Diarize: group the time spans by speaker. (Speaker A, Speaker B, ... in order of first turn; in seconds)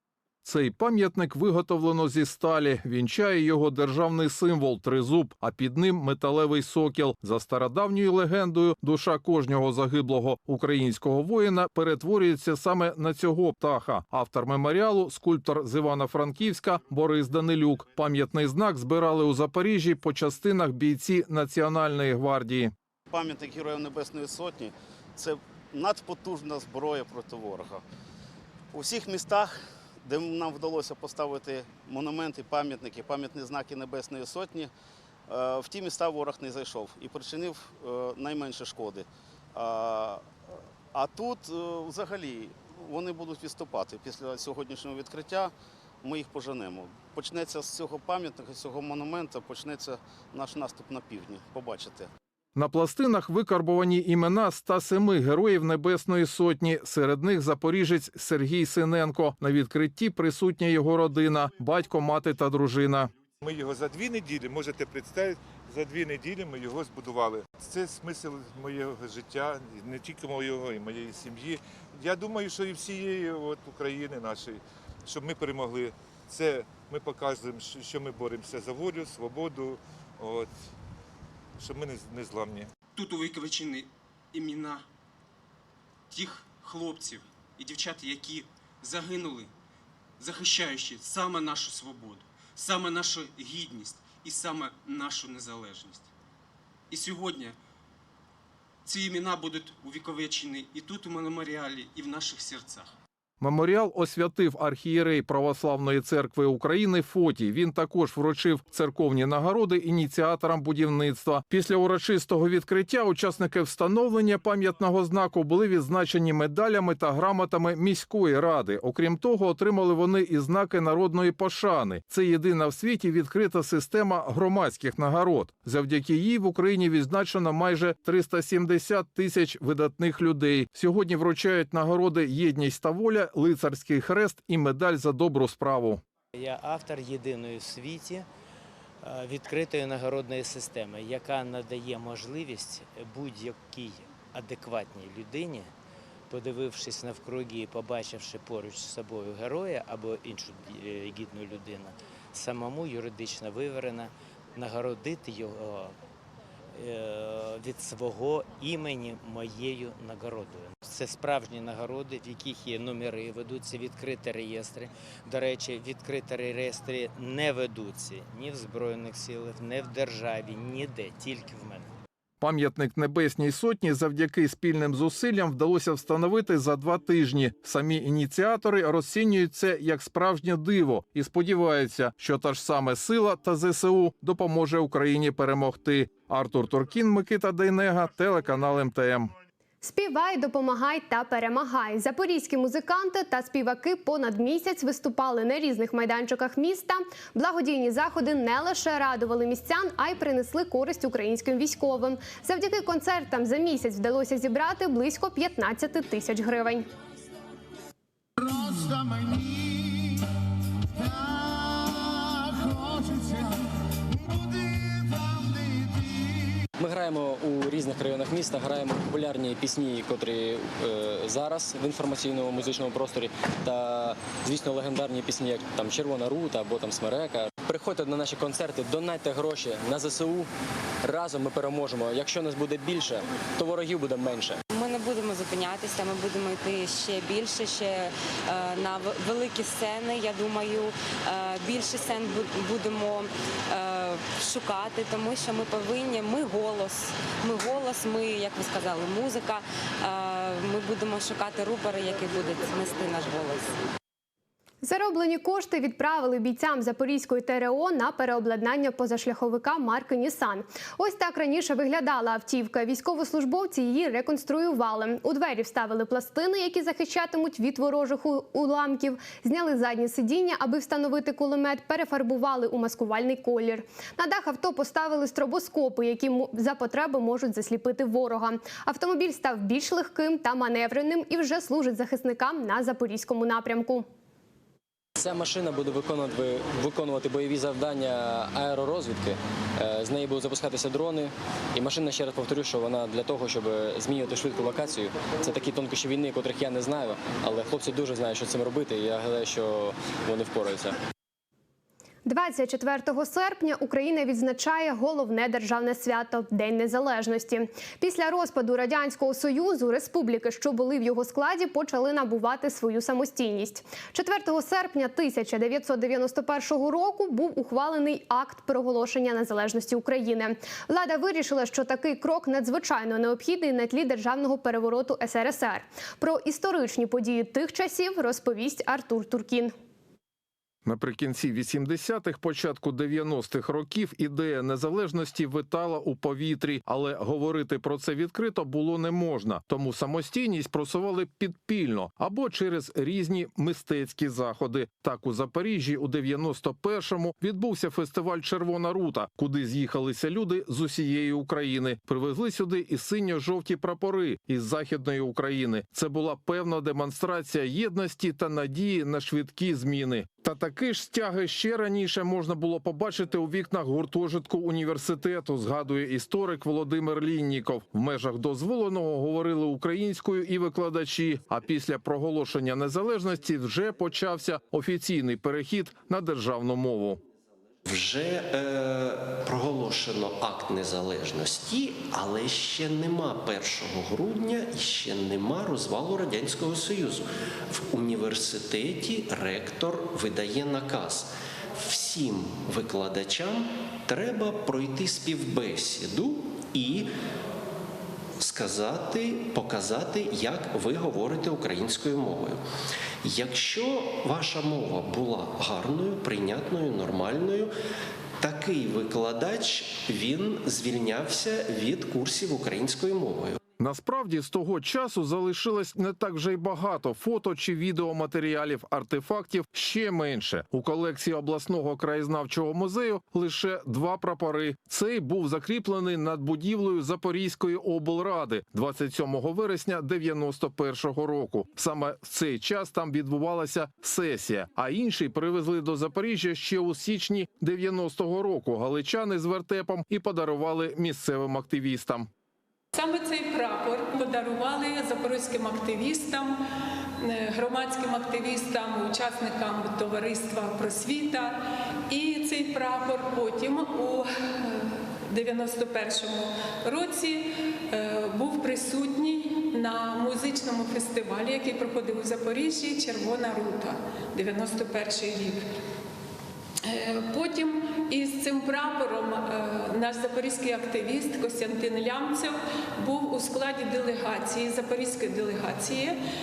Speaker A: 0.4-22.7, 52.5-63.1, 103.4-136.0, 172.4-189.3, 330.9-377.2, 413.8-442.3
Speaker B: 23.1-27.8, 28.7-34.7, 35.3-40.3, 40.9-52.1
Speaker C: 63.4-80.5, 81.6-82.7
Speaker D: 83.0-84.8, 86.1-89.5, 90.2-96.1, 96.9-97.6, 98.8-102.9
Speaker E: 136.3-138.3, 139.0-145.7, 146.3-155.9, 156.7-171.9
Speaker F: 189.8-206.9, 254.8-284.1, 302.2-329.7
Speaker G: 216.8-230.5, 231.0-234.6, 285.2-301.0
Speaker H: 234.7-253.7
Speaker I: 377.9-397.1, 398.4-402.6, 403.2-407.7, 408.4-413.6
Speaker J: 442.9-446.6, 447.2-465.6, 466.8-476.2